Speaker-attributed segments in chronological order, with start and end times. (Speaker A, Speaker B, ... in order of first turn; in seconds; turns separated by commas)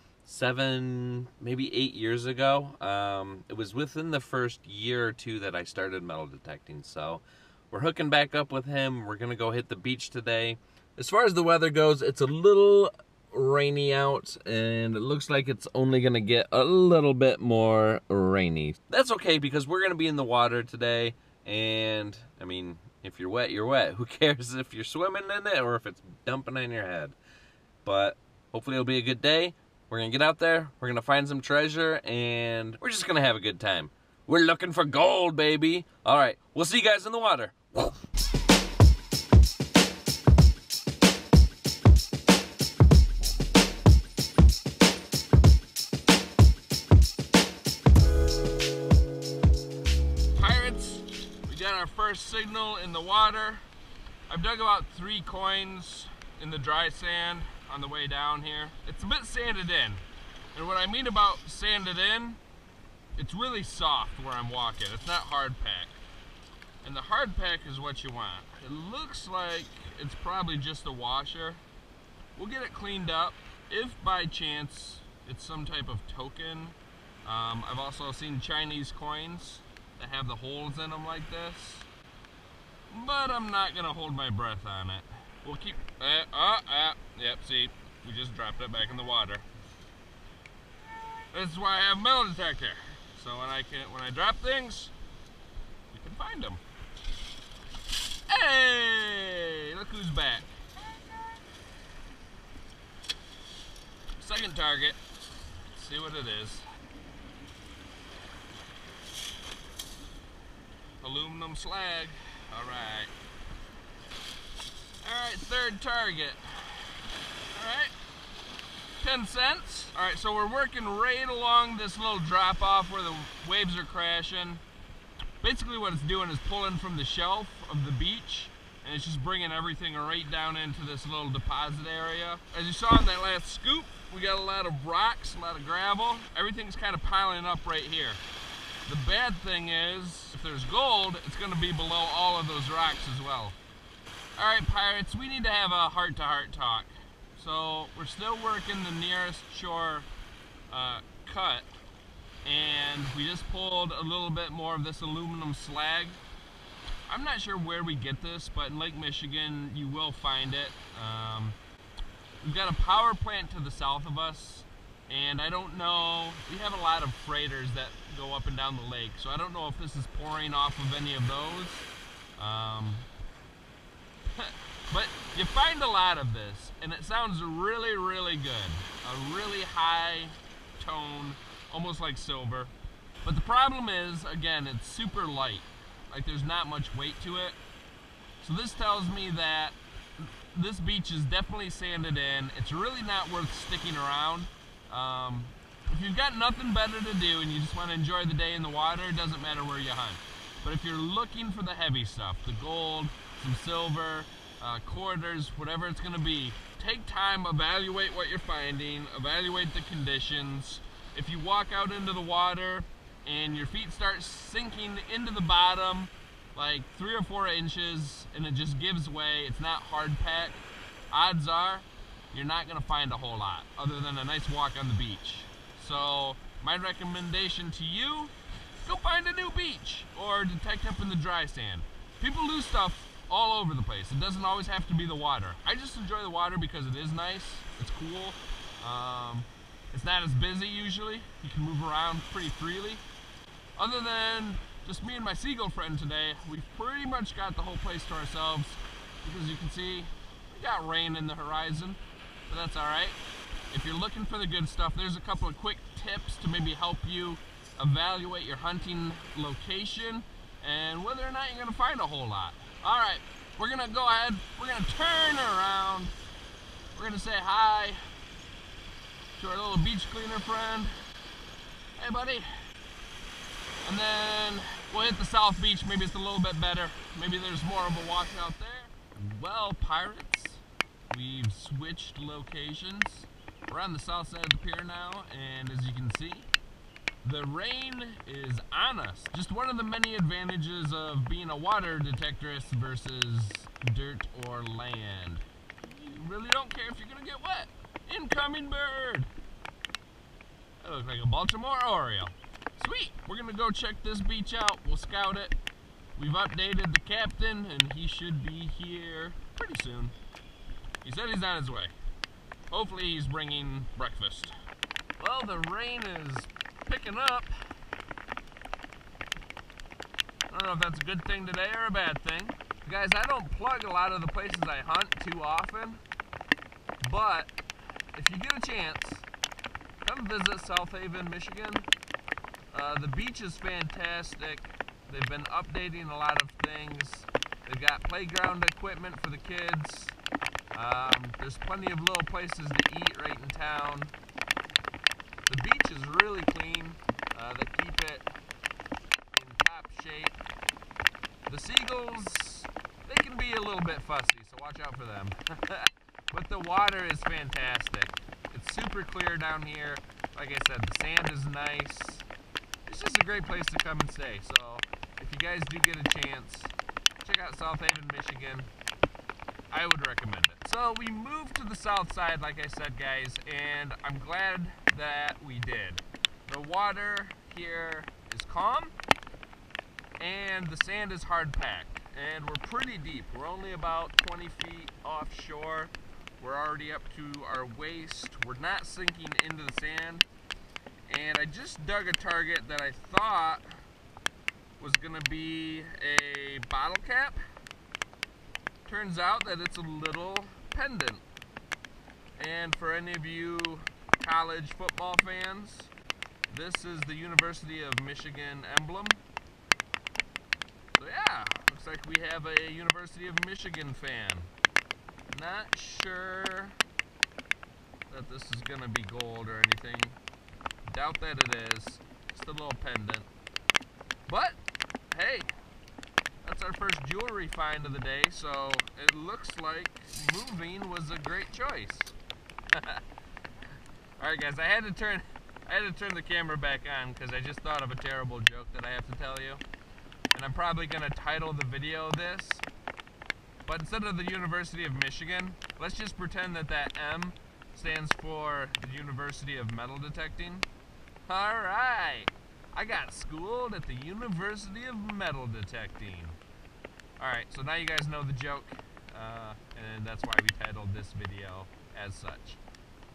Speaker A: 0.2-27.2, Speaker A: 27.8-38.0, Speaker A: 50.4-53.6, Speaker A: 54.3-60.0, Speaker A: 60.5-62.4, Speaker A: 63.2-66.0, Speaker A: 66.8-71.6, Speaker A: 72.3-81.9, Speaker A: 82.9-89.5, Speaker A: 91.3-94.9, Speaker A: 95.9-96.6, Speaker A: 98.3-100.5, Speaker A: 104.2-105.0, Speaker A: 105.7-106.6, Speaker A: 111.0-113.1, Speaker A: 115.0-117.0, Speaker A: 117.5-117.9, Speaker A: 119.0-124.6, Speaker A: 125.4-138.2, Speaker A: 138.9-143.6, Speaker A: 144.4-150.1, Speaker A: 150.7-151.7, Speaker A: 152.4-156.2, Speaker A: 157.1-161.6, Speaker A: 162.4-171.9, Speaker A: 172.4-173.1, Speaker A: 174.3-182.7, Speaker A: 183.2-187.6, Speaker A: 188.4-189.8, Speaker A: 190.5-243.0, Speaker A: 243.8-253.2, Speaker A: 253.7-266.1, Speaker A: 266.9-268.0, Speaker A: 269.4-270.9, Speaker A: 272.0-272.5, Speaker A: 273.8-286.5, Speaker A: 287.2-299.3, Speaker A: 300.8-305.6, Speaker A: 306.2-310.1, Speaker A: 311.0-311.9, Speaker A: 312.7-314.6, Speaker A: 315.2-317.6, Speaker A: 320.5-326.0, Speaker A: 327.0-327.5, Speaker A: 328.1-329.3, Speaker A: 330.0-331.9, Speaker A: 332.7-340.2, Speaker A: 340.8-344.1, Speaker A: 345.5-348.2, Speaker A: 349.3-350.4, Speaker A: 351.5-362.3, Speaker A: 362.9-368.7, Speaker A: 369.7-378.9, Speaker A: 380.2-390.3, Speaker A: 391.1-393.6, Speaker A: 394.8-397.4, Speaker A: 398.9-401.2, Speaker A: 402.4-405.9, Speaker A: 406.5-409.2, Speaker A: 410.9-414.5, Speaker A: 415.3-416.8, Speaker A: 418.1-420.2, Speaker A: 420.9-423.3, Speaker A: 424.3-424.6, Speaker A: 425.1-425.5, Speaker A: 426.4-432.1, Speaker A: 432.7-433.0, Speaker A: 434.2-439.6, Speaker A: 440.3-442.7, Speaker A: 443.7-450.7, Speaker A: 451.3-456.4, Speaker A: 457.2-462.6